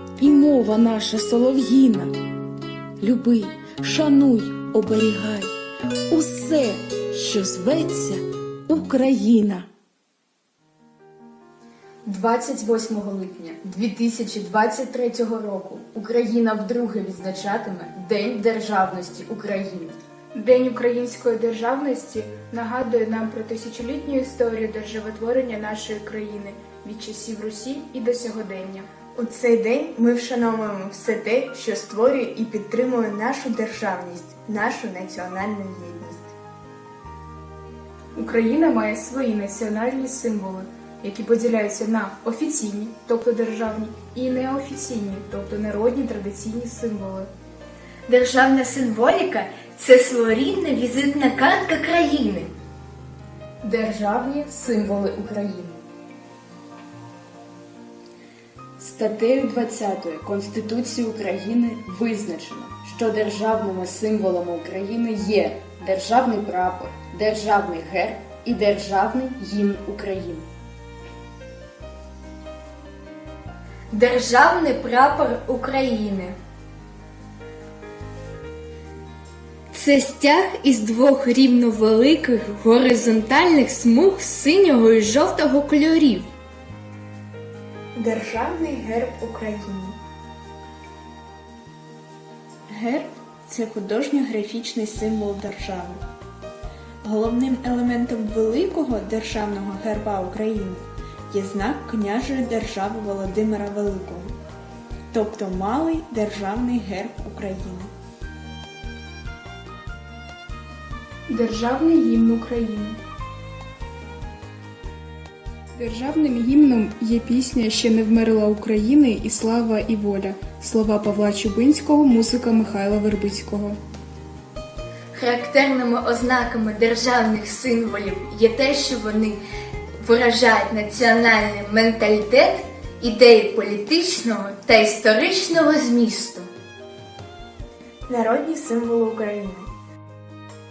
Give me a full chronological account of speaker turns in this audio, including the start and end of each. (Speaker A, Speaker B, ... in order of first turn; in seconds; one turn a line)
Speaker A: 0.2-2.2
Speaker A: 3.0-5.5
Speaker A: 6.1-9.7
Speaker B: 12.1-20.0
Speaker C: 20.4-28.9
Speaker D: 29.2-36.3
Speaker C: 38.2-47.3
Speaker E: 48.1-52.5
Speaker B: 53.6-55.8
Speaker B: 58.8-70.5
Speaker E: 73.9-76.4
Speaker E: 79.7-86.3
Speaker D: 88.0-90.0
Speaker D: 92.7-96.0
Speaker D: 97.0-104.3
Speaker D: 105.1-107.9
Speaker C: 111.3-113.0
Speaker C: 115.8-123.8
Speaker E: 125.1-129.4
Speaker E: 130.0-136.5
Speaker D: 138.1-139.7